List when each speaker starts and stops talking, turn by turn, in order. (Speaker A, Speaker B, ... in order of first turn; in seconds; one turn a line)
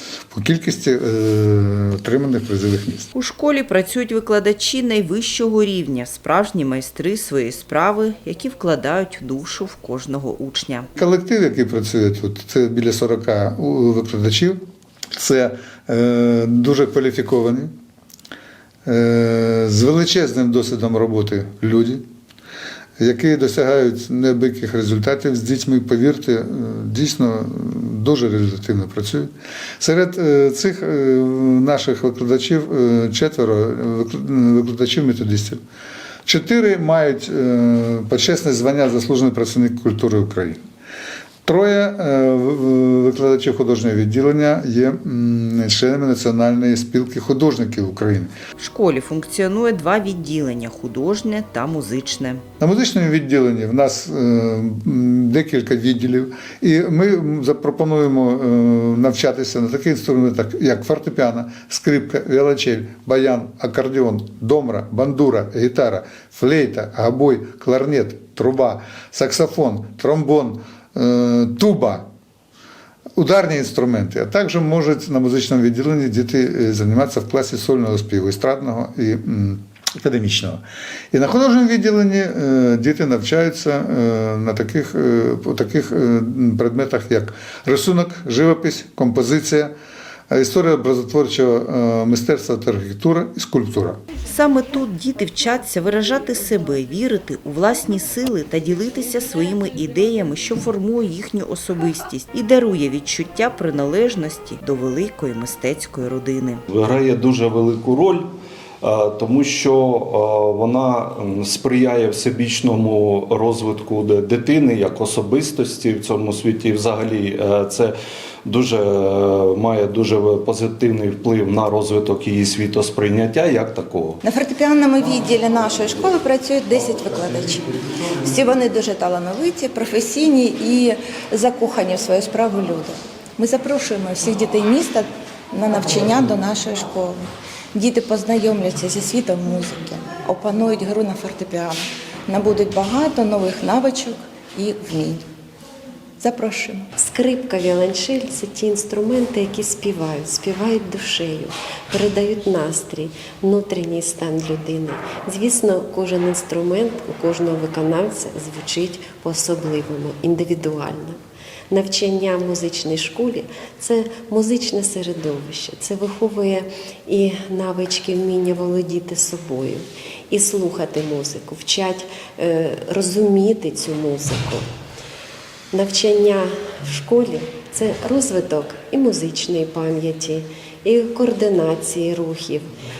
Speaker A: 0.3-3.1
Speaker B: 3.1-10.9
Speaker A: 10.9-14.6
Speaker A: 15.2-17.7
Speaker A: 18.9-22.0
Speaker A: 23.0-35.6
Speaker A: 36.2-40.6
Speaker A: 41.4-48.3
Speaker B: 48.6-52.4
Speaker A: 52.6-72.0
Speaker A: 73.2-89.7
Speaker A: 90.3-94.0
Speaker B: 94.3-106.6
Speaker C: 106.7-108.3
Speaker C: 108.8-124.2
Speaker D: 124.3-127.6
Speaker D: 128.3-135.0
Speaker D: 135.6-137.2
Speaker D: 137.8-141.8
Speaker D: 142.3-145.2
Speaker D: 146.3-146.7
Speaker E: 147.0-161.2
Speaker E: 161.7-174.7
Speaker E: 175.7-182.7